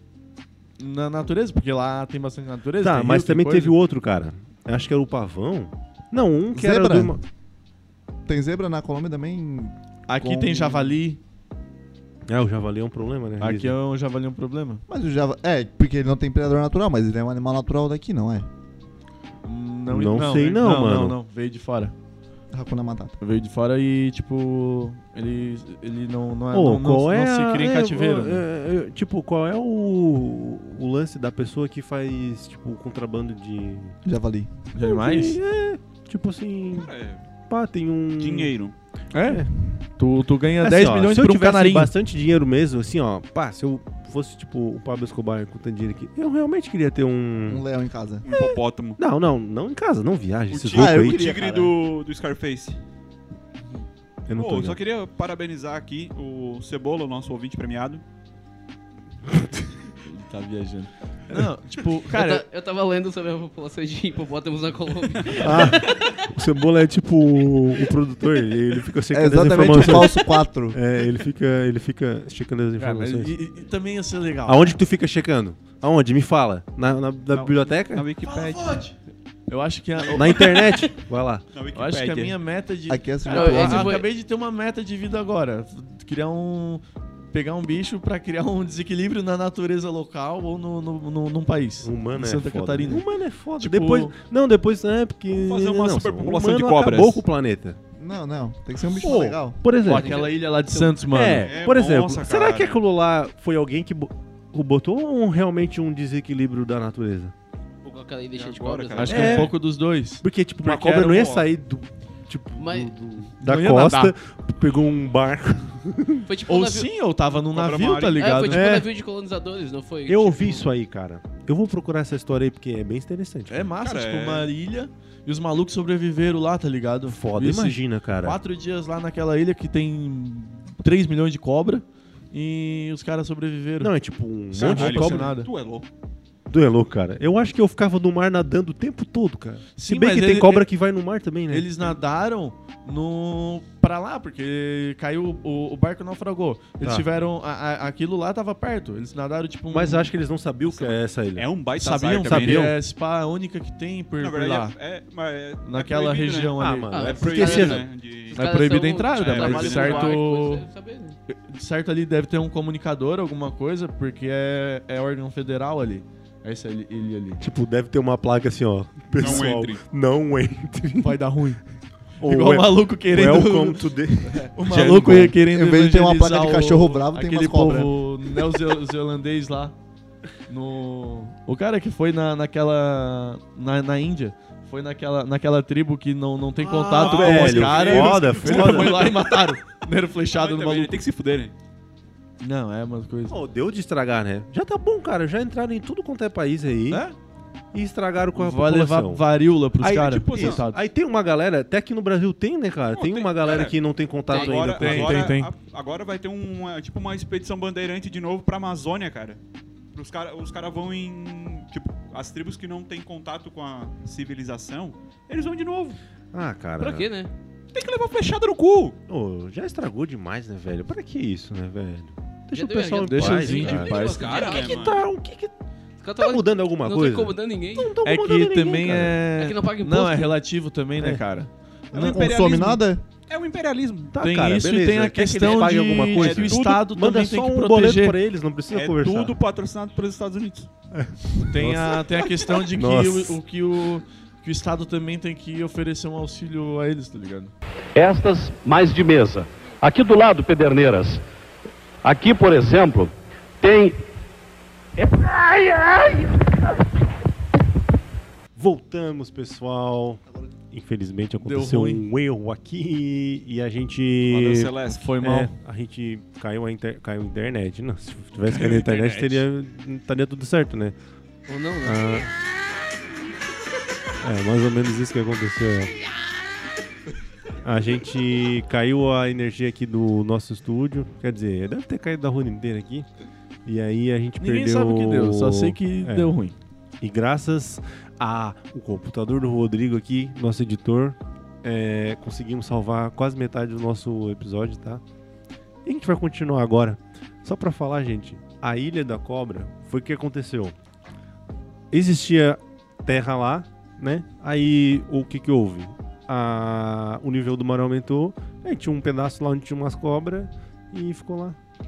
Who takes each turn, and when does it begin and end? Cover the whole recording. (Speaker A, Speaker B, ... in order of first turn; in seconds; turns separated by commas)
Speaker A: 0.8-3.8, Speaker B: 2.8-7.2, Speaker C: 6.5-7.2, Speaker C: 8.3-11.0, Speaker A: 10.1-11.2, Speaker B: 12.3-13.8, Speaker A: 13.4-14.8, Speaker C: 14.9-18.5, Speaker A: 19.4-21.9, Speaker B: 19.9-21.2, Speaker C: 22.5-23.2, Speaker A: 23.2-28.4, Speaker B: 26.5-34.0, Speaker C: 34.0-34.5, Speaker A: 34.7-35.4, Speaker B: 34.8-36.9, Speaker D: 36.7-37.2, Speaker B: 37.5-38.5, Speaker D: 38.2-38.8, Speaker A: 39.1-41.9, Speaker B: 40.6-47.6, Speaker C: 47.5-48.2, Speaker D: 48.2-49.0, Speaker B: 48.3-51.3, Speaker D: 50.5-52.8, Speaker C: 50.7-51.7, Speaker B: 54.3-54.8, Speaker D: 54.4-58.0, Speaker A: 60.0-62.5, Speaker E: 62.1-65.8, Speaker D: 65.3-65.6, Speaker B: 65.4-73.4, Speaker C: 69.1-70.8, Speaker A: 72.8-74.8, Speaker B: 74.5-78.1, Speaker D: 77.3-78.8, Speaker A: 78.2-79.0, Speaker A: 79.5-80.7, Speaker B: 80.1-81.5, Speaker E: 80.5-80.9, Speaker D: 81.5-82.4, Speaker A: 81.7-93.0, Speaker C: 82.9-84.0, Speaker E: 83.3-84.1, Speaker B: 91.8-97.8, Speaker A: 93.6-94.2, Speaker D: 95.3-97.2, Speaker C: 98.0-99.6, Speaker D: 99.0-99.4, Speaker B: 99.6-100.1, Speaker A: 99.8-101.5, Speaker E: 99.9-101.0, Speaker B: 101.1-107.3, Speaker D: 101.4-102.8, Speaker E: 107.8-109.5, Speaker D: 108.4-109.5, Speaker A: 109.0-110.2, Speaker B: 109.1-109.6, Speaker B: 110.2-116.2, Speaker D: 110.6-111.5, Speaker E: 112.6-112.9, Speaker A: 113.4-114.1, Speaker E: 116.3-116.9, Speaker A: 116.5-118.7, Speaker D: 117.5-118.3, Speaker E: 118.2-120.7, Speaker B: 118.5-118.9, Speaker B: 120.1-123.7, Speaker A: 123.5-133.9, Speaker D: 123.8-124.5, Speaker B: 127.1-128.4, Speaker B: 133.8-135.3, Speaker A: 134.5-135.5, Speaker D: 134.6-135.8, Speaker B: 136.5-141.7, Speaker A: 139.8-140.7, Speaker A: 141.5-150.1, Speaker B: 146.8-147.1, Speaker B: 149.7-151.5, Speaker D: 150.6-152.7, Speaker A: 151.8-154.7, Speaker B: 152.2-152.8, Speaker D: 154.2-158.4, Speaker A: 155.6-157.2, Speaker B: 156.6-157.9, Speaker E: 156.9-161.2, Speaker A: 158.3-160.7, Speaker D: 159.1-160.2, Speaker A: 161.3-167.4, Speaker B: 167.4-171.2, Speaker D: 169.1-169.8, Speaker A: 171.0-171.6, Speaker A: 172.2-173.9, Speaker B: 172.2-175.3, Speaker A: 174.5-179.8, Speaker D: 174.7-175.3, Speaker C: 175.4-177.9, Speaker A: 180.5-191.0, Speaker B: 186.6-189.2, Speaker D: 186.9-189.5, Speaker D: 190.3-191.5, Speaker A: 192.4-193.3, Speaker B: 193.3-197.0, Speaker A: 196.9-197.2, Speaker B: 197.7-199.2, Speaker A: 198.3-200.8, Speaker B: 199.8-205.4, Speaker D: 199.9-200.7, Speaker D: 202.9-203.8, Speaker D: 204.3-209.4, Speaker E: 204.3-204.6, Speaker A: 204.7-205.5, Speaker D: 209.9-216.0, Speaker B: 216.3-217.1, Speaker E: 216.8-217.3, Speaker D: 217.7-219.0, Speaker B: 219.1-225.5, Speaker E: 222.5-225.0, Speaker A: 223.0-224.6, Speaker D: 223.8-225.0, Speaker E: 226.0-228.0, Speaker B: 226.2-229.2, Speaker A: 228.0-231.5, Speaker E: 229.4-230.4, Speaker D: 231.9-234.2, Speaker C: 231.9-233.0, Speaker B: 234.2-239.3, Speaker A: 234.2-238.2, Speaker D: 235.3-236.8, Speaker D: 238.7-240.7, Speaker B: 240.9-242.2, Speaker A: 241.5-247.5, Speaker B: 242.7-243.4, Speaker F: 248.0-251.2, Speaker F: 252.0-254.0, Speaker F: 255.0-256.9, Speaker B: 258.6-270.9, Speaker A: 261.4-262.1, Speaker D: 264.3-265.0, Speaker A: 264.9-265.5, Speaker A: 268.5-269.4, Speaker E: 271.5-272.3, Speaker B: 271.8-272.3, Speaker B: 274.2-276.0, Speaker B: 277.6-283.1, Speaker B: 283.7-286.4, Speaker A: 284.4-286.6, Speaker B: 287.0-295.0, Speaker B: 295.9-300.8, Speaker B: 301.9-311.6